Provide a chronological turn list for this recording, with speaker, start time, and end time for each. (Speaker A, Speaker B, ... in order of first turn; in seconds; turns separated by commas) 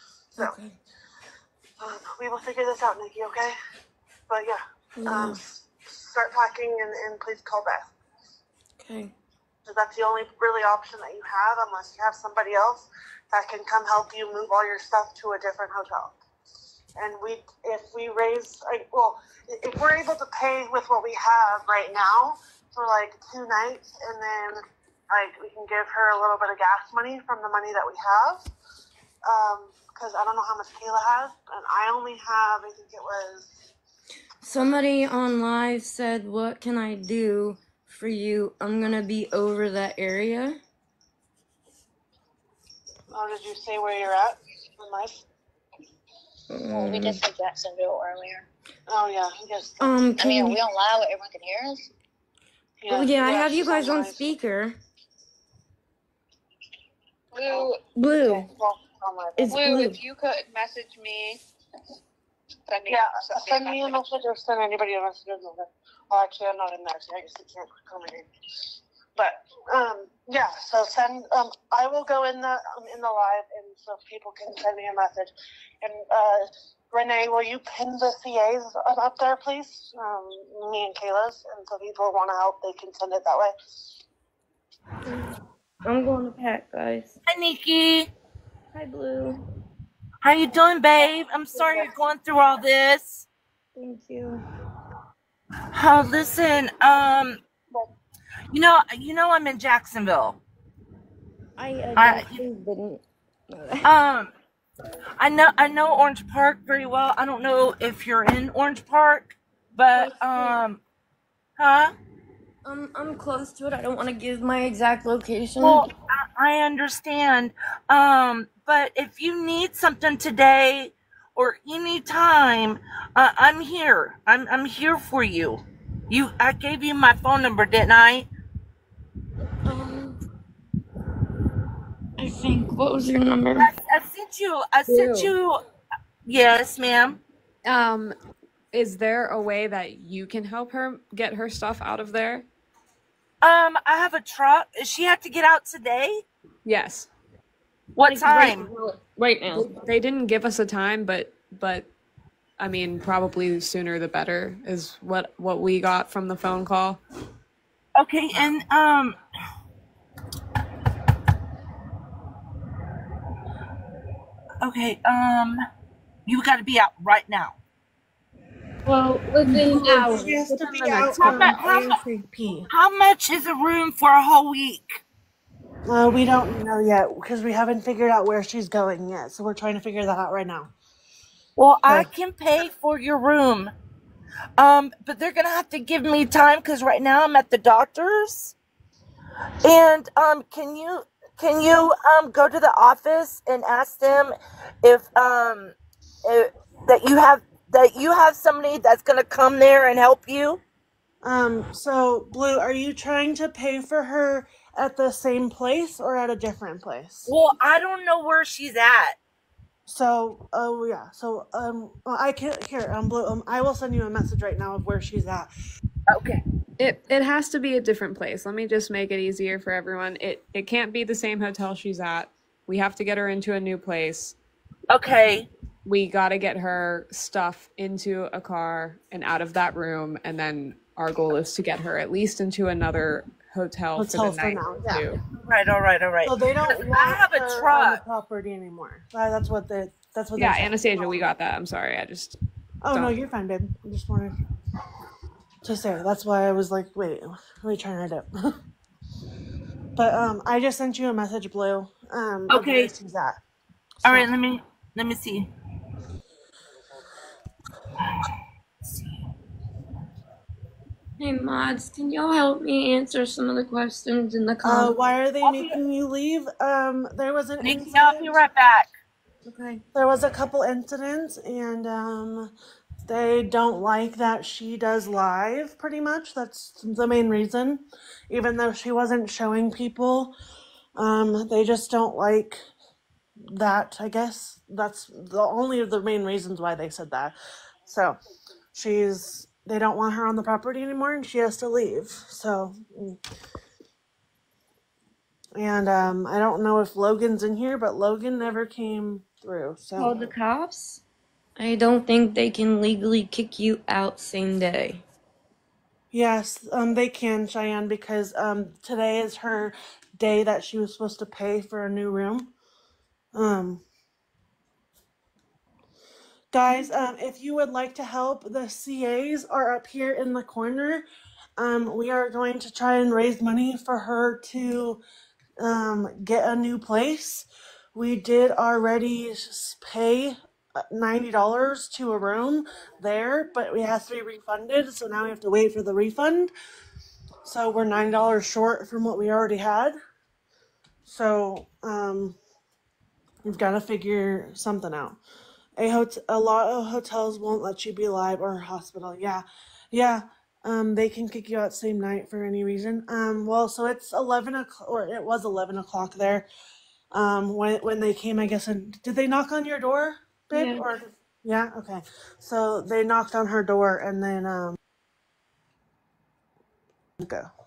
Speaker A: 0.4-0.8, Speaker B: 1.8-3.5, Speaker B: 4.3-7.9, Speaker A: 5.0-5.4, Speaker A: 8.8-9.1, Speaker B: 9.7-16.2, Speaker B: 17.0-28.5, Speaker B: 29.2-33.7, Speaker A: 34.4-40.6, Speaker B: 43.1-45.2, Speaker A: 46.5-47.2, Speaker C: 46.7-48.5, Speaker B: 48.9-50.0, Speaker A: 49.8-50.6, Speaker C: 50.2-51.9, Speaker B: 52.8-54.4, Speaker A: 52.9-54.8, Speaker D: 57.3-57.8, Speaker A: 57.9-58.5, Speaker B: 58.2-59.6, Speaker A: 59.4-60.0, Speaker D: 59.5-61.4, Speaker D: 62.7-64.0, Speaker B: 62.9-83.5, Speaker A: 85.8-87.2, Speaker E: 87.3-88.1, Speaker A: 88.7-89.4, Speaker E: 90.2-93.3, Speaker A: 91.6-91.8, Speaker A: 93.8-94.5, Speaker E: 95.7-97.4, Speaker E: 98.5-100.4, Speaker A: 101.6-103.9, Speaker E: 102.0-102.4, Speaker E: 103.8-104.3, Speaker E: 105.2-110.8, Speaker A: 110.0-110.6, Speaker E: 111.6-111.9, Speaker A: 112.6-115.9, Speaker E: 115.6-128.3, Speaker A: 129.7-130.2, Speaker A: 132.2-133.7, Speaker E: 133.6-135.6, Speaker F: 134.9-135.3, Speaker E: 136.2-137.2, Speaker F: 137.7-138.2, Speaker F: 138.7-142.5, Speaker E: 143.4-146.2, Speaker F: 146.7-147.1, Speaker E: 148.0-148.7, Speaker A: 148.1-149.8, Speaker F: 149.5-151.9, Speaker F: 152.6-157.0, Speaker E: 158.0-159.2, Speaker E: 164.6-165.6, Speaker E: 166.3-167.6, Speaker A: 168.9-171.3, Speaker B: 169.6-172.7, Speaker E: 171.0-172.0, Speaker E: 172.7-175.0, Speaker B: 175.9-180.7, Speaker E: 181.6-183.7, Speaker E: 184.6-188.6, Speaker E: 189.6-200.6, Speaker B: 201.2-207.3, Speaker E: 207.3-209.2, Speaker B: 209.9-215.5, Speaker E: 216.1-216.4, Speaker F: 216.8-224.4, Speaker E: 224.9-225.5, Speaker F: 225.8-235.2, Speaker B: 234.0-235.0, Speaker E: 235.4-238.0, Speaker B: 236.2-241.2, Speaker F: 240.4-242.4, Speaker B: 242.8-244.4, Speaker B: 245.6-248.6, Speaker B: 250.0-253.4, Speaker E: 252.5-252.9, Speaker B: 254.0-254.3, Speaker E: 254.0-255.5, Speaker A: 261.2-264.9, Speaker B: 264.6-268.4, Speaker E: 265.4-265.8, Speaker E: 267.6-268.9, Speaker B: 269.5-272.5, Speaker B: 273.1-280.3, Speaker B: 281.0-282.6, Speaker B: 283.5-287.4, Speaker B: 287.9-288.2, Speaker B: 288.7-293.2, Speaker B: 295.6-300.3, Speaker A: 300.0-301.0, Speaker A: 301.6-305.1, Speaker B: 306.1-312.5, Speaker B: 313.3-313.8, Speaker B: 316.5-321.1, Speaker B: 321.6-325.0, Speaker B: 325.6-336.5, Speaker B: 337.4-340.0, Speaker B: 341.1-342.4, Speaker B: 343.4-345.2, Speaker B: 345.8-356.5, Speaker B: 357.1-364.8, Speaker A: 360.5-360.9, Speaker B: 367.2-367.5